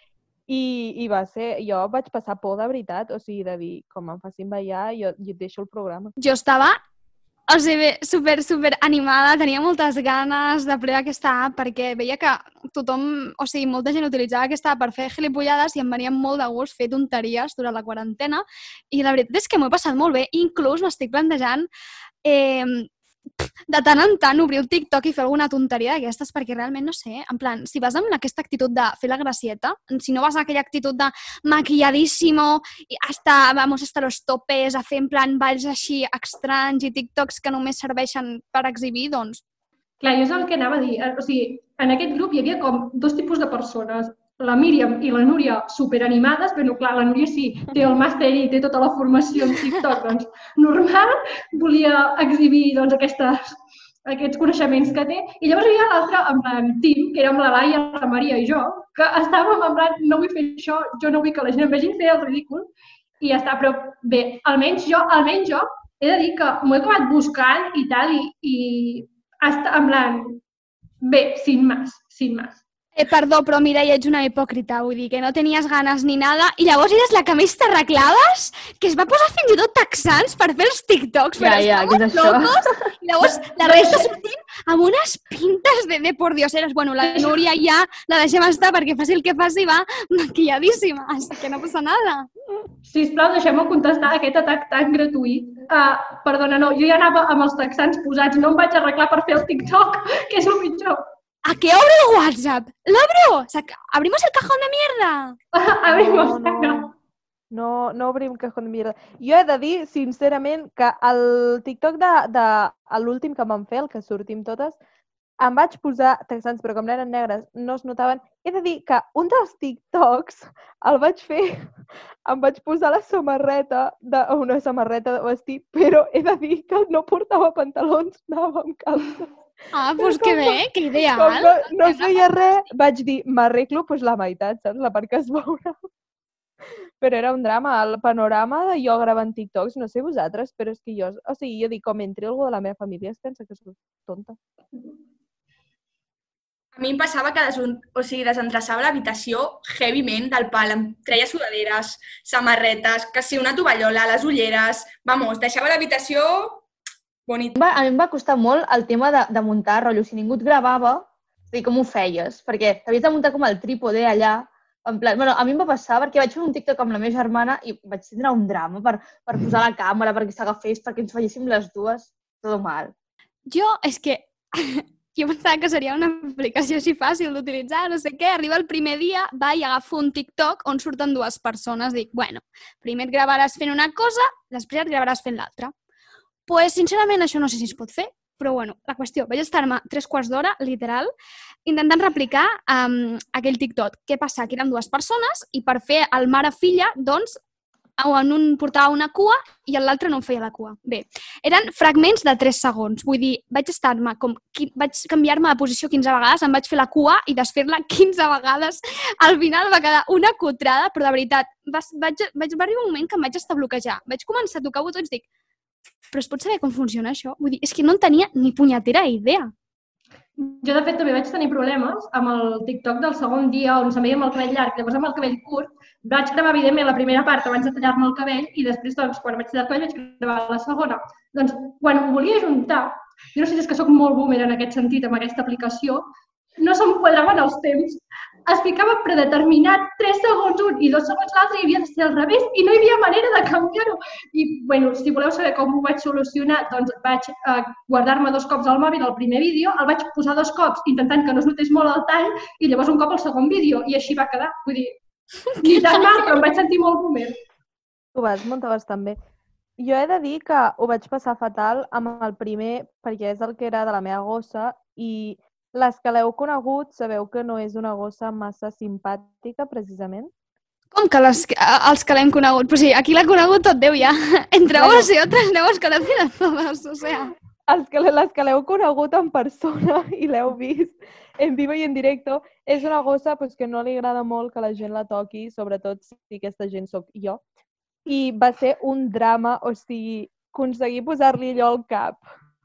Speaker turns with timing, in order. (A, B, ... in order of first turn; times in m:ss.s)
0:00.5-0:06.1 A
0:06.2-0:06.8 B
0:07.5-0:21.7 B
0:22.2-0:22.9 B
0:23.7-0:39.4 B
0:40.0-0:53.5 C
0:54.0-1:02.7 C
1:03.2-1:10.4 C
1:11.0-1:12.6 C
1:13.0-1:32.3 B
1:21.4-1:22.5 D
1:23.6-1:24.0 C
1:27.0-1:27.4 C
1:32.8-1:41.0 C
1:41.4-1:45.4 B
1:45.5-1:46.9 C
1:45.9-1:46.8 A
1:47.5-1:54.8 A
1:55.4-2:01.7 A
2:02.2-2:09.3 A
2:09.7-2:12.6 B
2:10.0-2:10.6 A
2:11.1-2:15.7 A
2:17.0-2:24.4 A
2:26.7-2:36.6 E
2:37.3-2:37.6 E
2:37.6-2:52.9 D
2:53.5-3:05.7 B
3:06.5-3:11.1 B
3:11.6-3:17.4 B
3:18.0-3:35.2 B
3:36.1-3:39.5 B
3:40.4-4:15.0 C
4:15.6-4:17.4 C
4:15.6-4:16.3 B
4:18.1-4:19.2 A
4:19.8-4:30.3 A
4:30.9-4:37.3 B
4:34.7-4:35.1 A
4:37.7-4:47.4 A
4:48.0-4:52.2 A